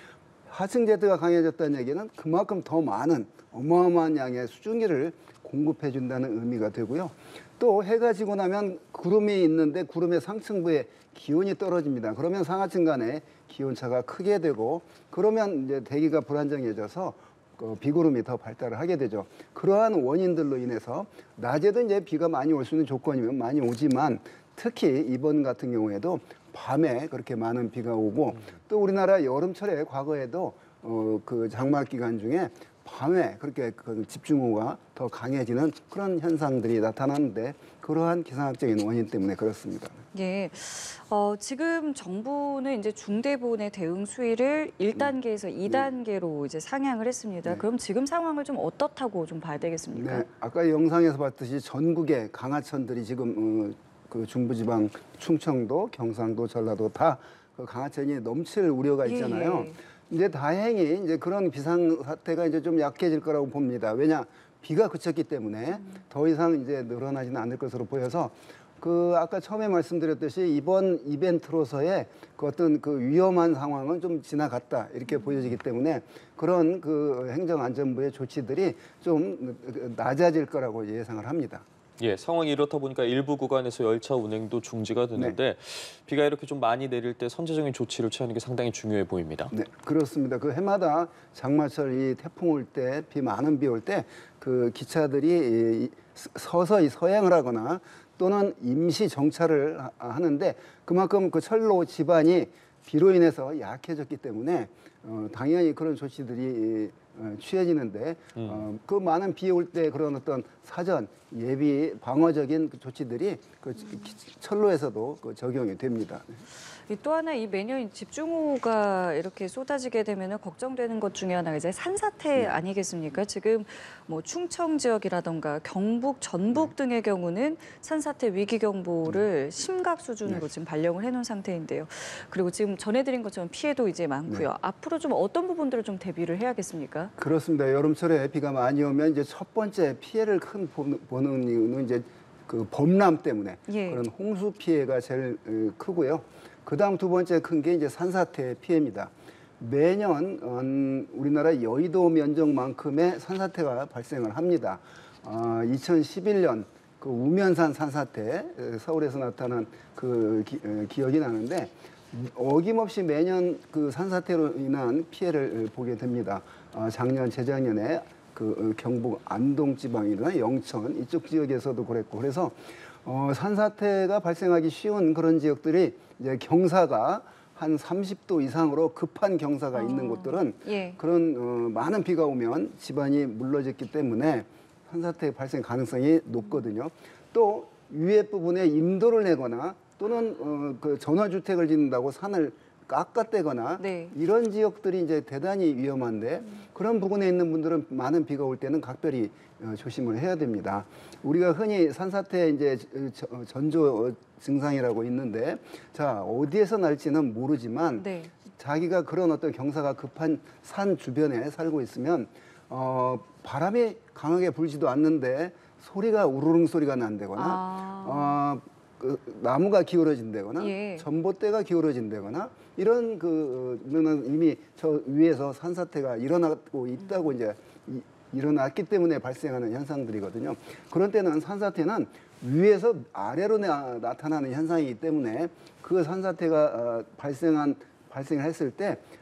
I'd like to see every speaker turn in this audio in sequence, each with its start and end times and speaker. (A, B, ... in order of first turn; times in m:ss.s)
0:00.5-0:40.0 A
0:40.1-0:50.3 B
0:49.9-1:21.6 A
0:59.0-0:59.8 B
1:22.0-1:29.5 C
1:29.5-1:56.4 A
1:48.4-1:48.6 C
1:56.9-2:17.1 B
2:02.3-2:02.6 A
2:17.2-3:59.0 A
2:23.7-2:24.0 B
2:59.7-3:01.0 B
3:13.8-3:14.1 B
3:28.0-3:28.3 B
3:37.4-3:38.3 B
3:40.6-3:41.0 B